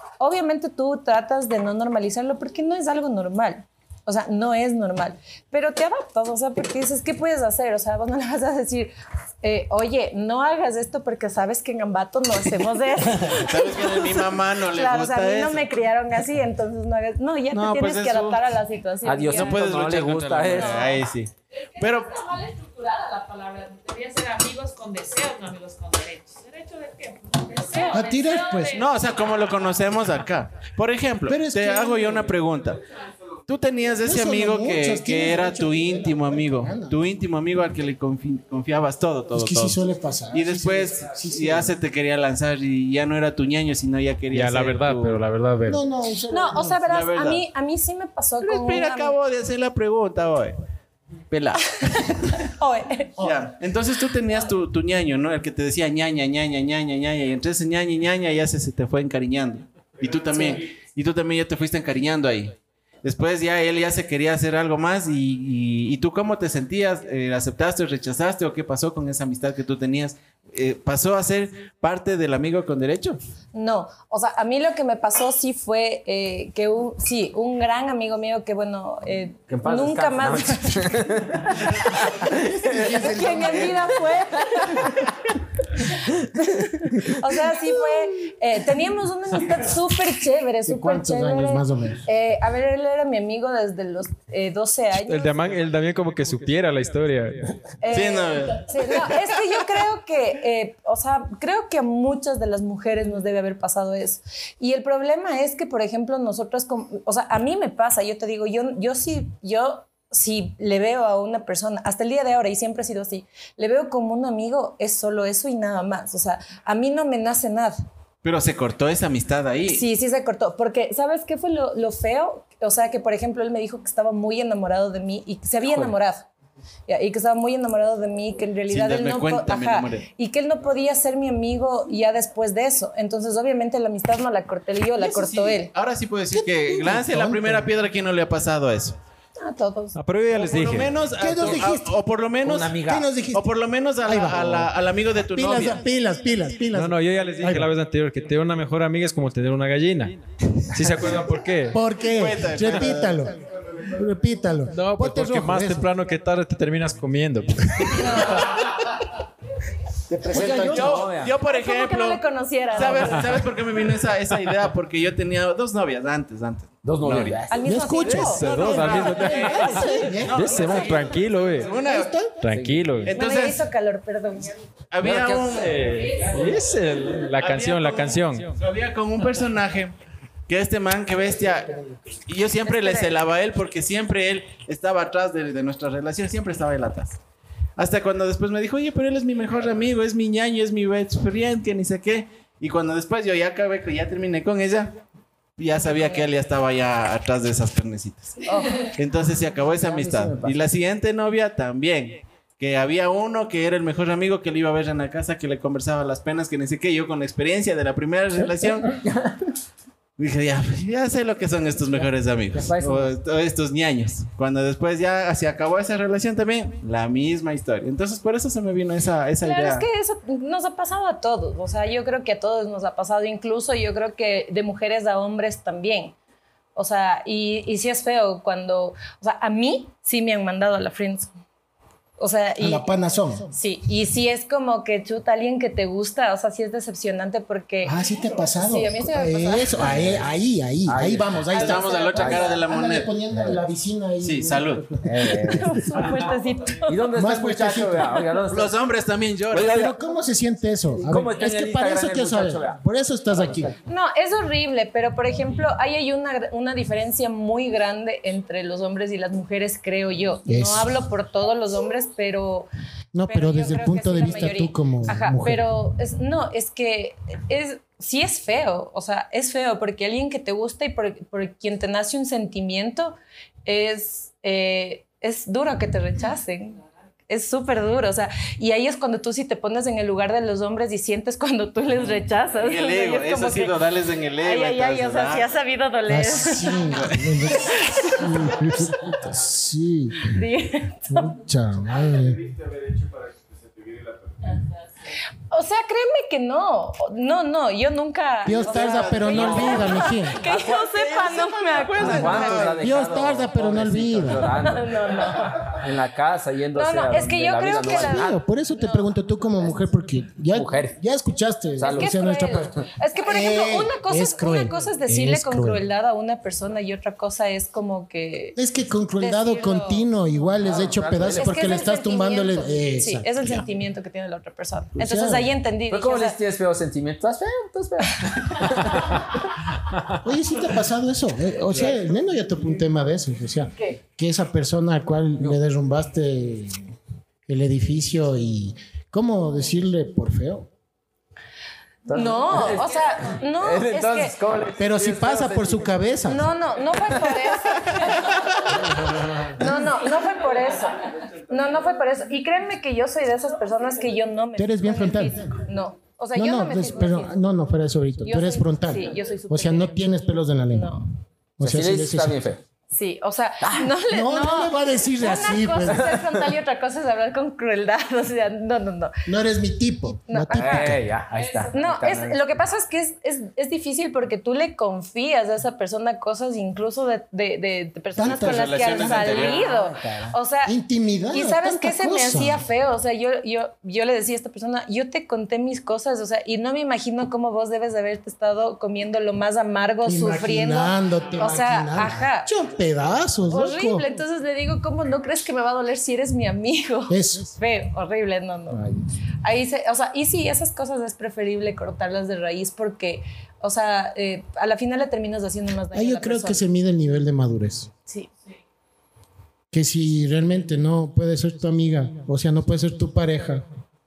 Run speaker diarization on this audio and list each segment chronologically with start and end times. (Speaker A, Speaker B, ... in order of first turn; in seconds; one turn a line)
Speaker A: 0.2-19.6
Speaker B: 13.2-15.7
Speaker B: 17.5-18.4
Speaker C: 19.1-20.9
Speaker B: 19.3-22.3
Speaker A: 20.6-20.9
Speaker D: 21.8-28.9
Speaker E: 27.9-28.8
Speaker B: 28.7-32.8
Speaker E: 31.3-32.3
Speaker B: 33.5-39.8
Speaker E: 34.0-37.0
Speaker E: 39.3-41.7
Speaker B: 40.3-45.2
Speaker F: 44.3-45.8
Speaker E: 45.7-46.9
Speaker A: 46.3-49.2
Speaker B: 46.9-47.4
Speaker B: 48.4-50.6
Speaker B: 51.3-52.5
Speaker A: 52.4-53.1
Speaker B: 53.2-73.2
Speaker A: 60.3-60.6
Speaker A: 73.5-81.2
Speaker C: 79.5-83.1
Speaker E: 82.3-84.0
Speaker A: 82.8-85.0
Speaker A: 86.1-95.4
Speaker E: 90.7-92.0
Speaker F: 94.9-97.5
Speaker A: 97.8-117.8
Speaker B: 97.9-99.1
Speaker B: 118.2-119.8
Speaker A: 119.7-126.3
Speaker A: 126.9-135.7
Speaker B: 128.7-130.1
Speaker B: 135.0-139.0
Speaker E: 136.3-137.7
Speaker A: 139.4-140.0
Speaker F: 139.9-140.9
Speaker B: 140.4-142.8
Speaker E: 141.2-142.0
Speaker C: 142.4-143.1
Speaker E: 142.8-143.5
Speaker B: 143.3-145.8
Speaker E: 144.0-144.7
Speaker E: 145.2-147.7
Speaker F: 146.7-150.2
Speaker F: 150.7-151.8
Speaker E: 151.7-155.9
Speaker B: 152.1-153.2
Speaker F: 154.8-158.1
Speaker A: 157.9-158.5
Speaker E: 160.1-161.1
Speaker C: 160.3-161.3
Speaker B: 160.3-167.4
Speaker A: 161.4-163.3
Speaker C: 166.8-167.8
Speaker A: 167.5-168.5
Speaker E: 167.6-170.8
Speaker B: 168.1-172.3
Speaker F: 168.2-171.7
Speaker E: 171.8-172.3
Speaker F: 172.4-173.2
Speaker C: 172.5-172.9
Speaker B: 173.1-173.6
Speaker A: 173.1-174.6
Speaker B: 174.9-175.8
Speaker F: 175.0-178.5
Speaker B: 177.4-179.9
Speaker B: 180.5-187.2
Speaker A: 182.7-183.1
Speaker B: 187.8-195.0
Speaker B: 195.6-209.0
Speaker A: 198.5-198.9
Speaker C: 199.8-200.6
Speaker C: 208.4-209.5
Speaker B: 210.2-219.9
Speaker C: 212.0-213.2
Speaker A: 219.4-226.2
Speaker A: 226.8-231.3
Speaker A: 232.2-232.8
Speaker E: 232.6-233.5
Speaker A: 233.5-238.0
Speaker E: 237.8-245.7
Speaker A: 238.6-240.0
Speaker C: 239.8-240.2
Speaker C: 240.9-241.6
Speaker B: 241.5-243.1
Speaker A: 241.5-242.6
Speaker C: 242.2-242.5
Speaker C: 243.3-243.6
Speaker B: 244.2-244.9
Speaker C: 245.0-245.8
Speaker A: 245.4-247.0
Speaker C: 246.9-248.8
Speaker E: 247.1-248.2
Speaker B: 248.5-249.9
Speaker C: 249.5-250.0
Speaker E: 249.6-253.7
Speaker C: 251.0-252.8
Speaker C: 253.3-253.8
Speaker A: 253.9-262.7
Speaker E: 260.5-261.0
Speaker E: 263.1-265.6
Speaker A: 263.3-283.9
Speaker B: 282.6-285.5
Speaker A: 284.4-286.8
Speaker E: 286.1-290.4
Speaker B: 286.8-287.8
Speaker A: 287.7-288.2
Speaker A: 290.3-291.3
Speaker E: 291.1-292.5
Speaker A: 295.5-302.7
Speaker E: 298.4-300.4
Speaker B: 298.5-299.6
Speaker C: 299.2-301.0
Speaker B: 300.9-302.9
Speaker C: 301.9-308.4
Speaker E: 302.8-304.5
Speaker A: 304.6-305.7
Speaker A: 306.8-309.1
Speaker E: 307.9-315.8
Speaker C: 310.5-311.0
Speaker C: 311.8-312.7
Speaker A: 311.9-318.6
Speaker E: 318.6-323.6
Speaker A: 319.2-320.1
Speaker C: 320.6-321.7
Speaker A: 321.4-326.4
Speaker E: 324.9-325.5
Speaker C: 325.9-329.4
Speaker E: 330.2-336.8
Speaker E: 337.5-340.7
Speaker C: 342.1-346.3
Speaker A: 342.1-344.4
Speaker E: 344.8-346.5
Speaker A: 346.3-348.4
Speaker C: 347.0-348.2
Speaker A: 349.6-357.4
Speaker E: 354.6-355.5
Speaker E: 356.4-361.0
Speaker A: 358.2-360.0
Speaker A: 360.7-361.1
Speaker E: 361.6-362.4
Speaker C: 361.6-362.6
Speaker A: 362.9-369.1
Speaker C: 363.6-363.9
Speaker E: 364.1-366.1
Speaker C: 366.0-366.2
Speaker E: 369.3-371.1
Speaker A: 370.3-370.9
Speaker C: 370.5-372.4
Speaker D: 371.4-371.7
Speaker A: 371.7-380.8
Speaker E: 378.2-379.5
Speaker B: 378.2-379.6
Speaker C: 379.3-380.3
Speaker E: 380.6-382.6
Speaker A: 381.3-392.5
Speaker E: 390.0-394.1
Speaker A: 393.5-398.9
Speaker E: 397.1-397.6
Speaker A: 399.4-406.6
Speaker E: 405.9-407.9
Speaker E: 409.7-413.6